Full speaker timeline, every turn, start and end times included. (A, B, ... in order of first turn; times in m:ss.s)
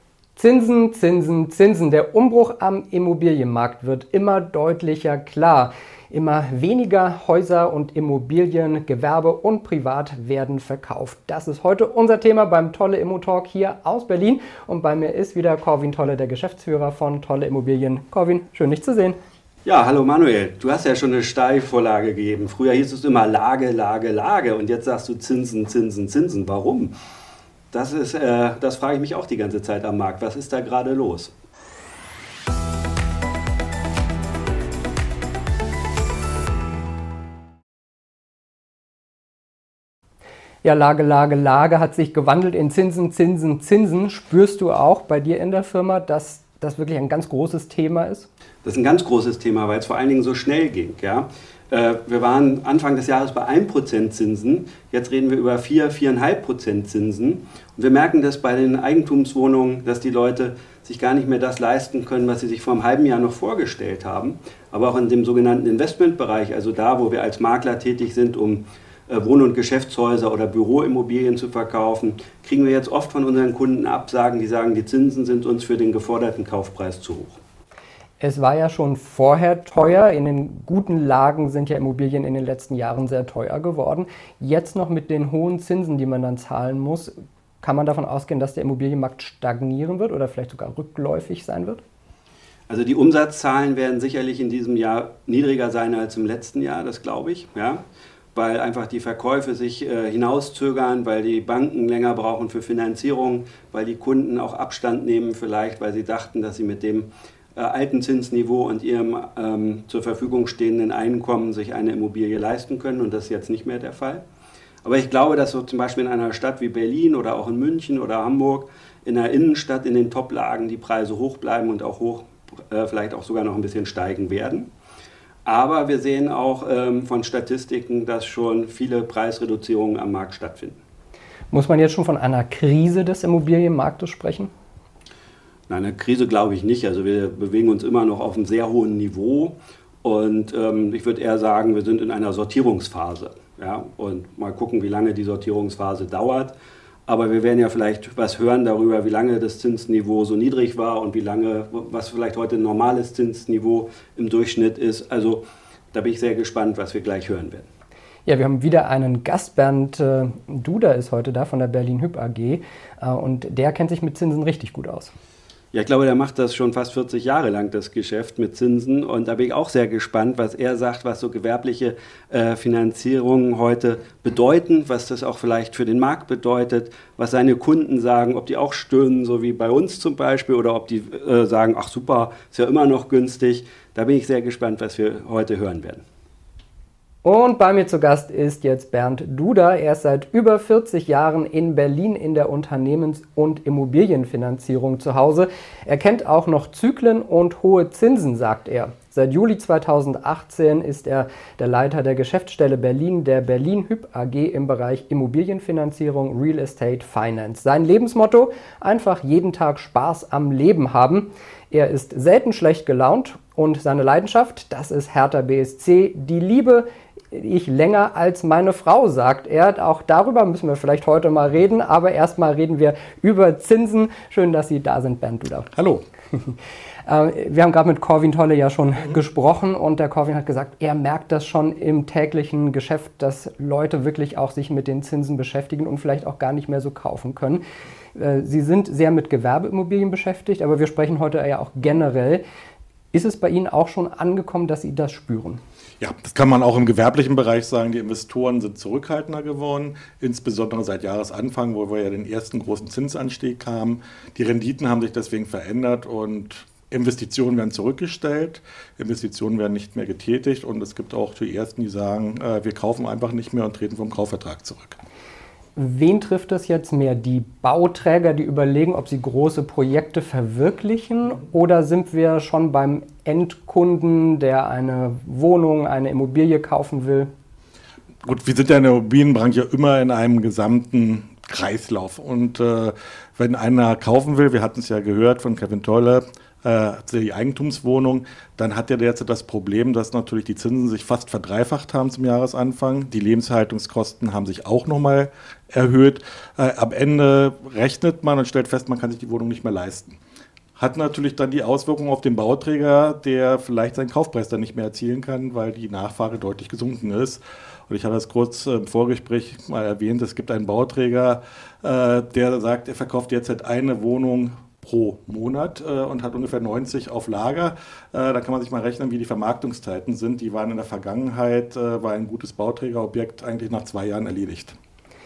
0:00.4-0:19.2 A
0:19.6-0:26.9 B
0:27.7-0:31.3 B
0:40.6-0:48.3 A
0:48.6-1:17.4 B
1:18.2-1:31.8 A
1:32.7-1:37.8 B
1:38.4-1:54.2 B
1:54.8-2:04.7 B
2:05.4-2:10.8 B
2:11.5-2:14.5 A
2:15.7-2:26.6 B
2:27.1-2:37.7 B
2:38.3-2:45.1 A
2:45.7-3:06.0 B
3:07.2-3:45.7 A
3:45.7-3:46.0 C
3:47.1-3:57.6 A
3:58.2-4:02.4 A
4:03.1-4:05.6 A
4:06.0-4:25.0 C
4:25.8-4:37.3 A
4:38.2-5:00.2 C
5:00.8-5:24.8 C